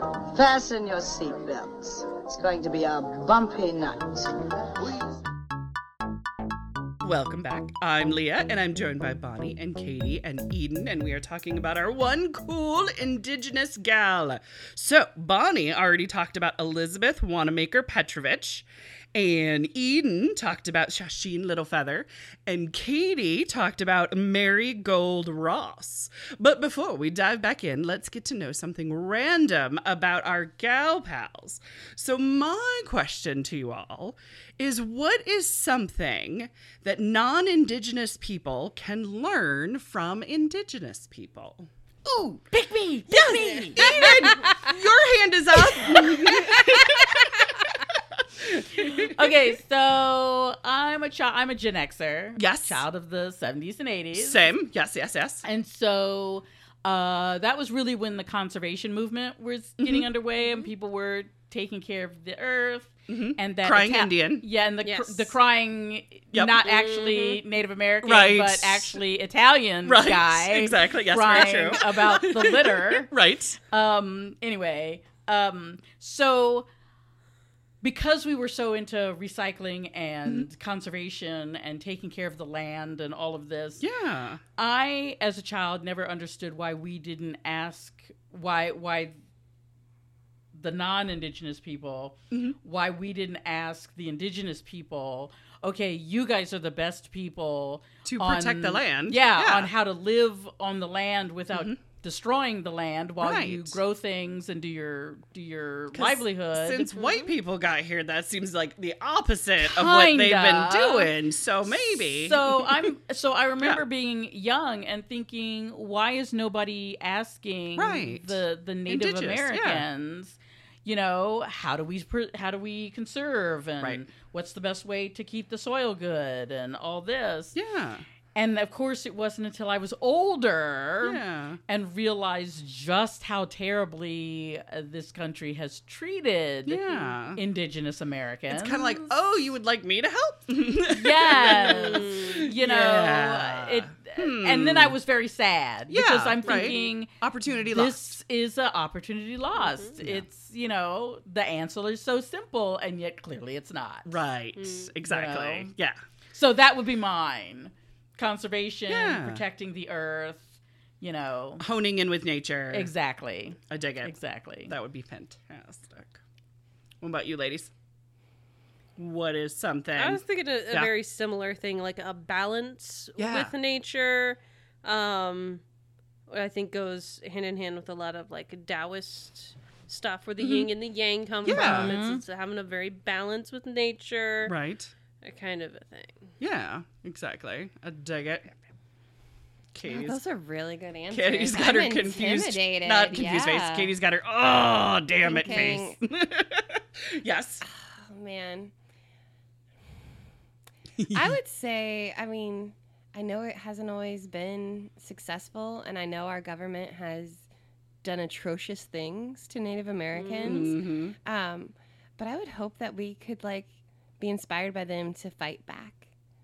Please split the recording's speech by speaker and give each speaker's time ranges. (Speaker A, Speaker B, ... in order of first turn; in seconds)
Speaker A: 0.3-5.1
Speaker B: 7.0-41.7, 43.2-47.5, 48.4-49.3, 52.4-52.8, 54.1-55.4, 59.8-60.0, 63.1-64.4, 66.3-66.6, 68.0-69.0, 69.8-73.6, 83.8-84.4, 92.3-92.5, 98.0-99.7, 101.5-101.8, 103.2-103.8, 105.9-112.8, 117.8-119.8, 127.5-128.0, 131.0-131.6, 136.7-137.4, 138.5-145.0, 145.9-148.1, 150.0-150.2, 154.0-156.0, 158.9-159.4, 161.6-162.9, 163.7-166.2, 167.0-167.7, 169.0-170.9, 173.2-173.5, 180.4-180.7, 181.4-181.9, 184.4-184.9, 186.4-188.6, 189.7-190.2, 191.1-197.6, 201.0-201.4, 210.4-211.1
Speaker C: 42.0-44.2, 46.0-47.0, 48.8-54.4, 55.4-73.1, 73.7-76.7, 77.8-83.8, 84.6-89.2, 90.5-106.9, 109.6-111.1, 111.8-127.5, 128.3-139.1, 140.9-147.1, 147.7-154.1, 155.0-155.7, 156.3-160.5, 161.0-161.6, 162.7-164.7, 181.5-182.2
Speaker D: 64.8-65.3, 66.6-67.4, 141.9-142.2, 146.4-146.8, 149.6-149.9, 154.6-154.9, 169.9-175.6, 176.3-184.5, 185.2-186.3, 195.4-195.8, 210.1-210.7
Speaker E: 189.9-193.9, 195.2-196.0, 197.7-198.7, 201.1-207.4, 208.0-216.0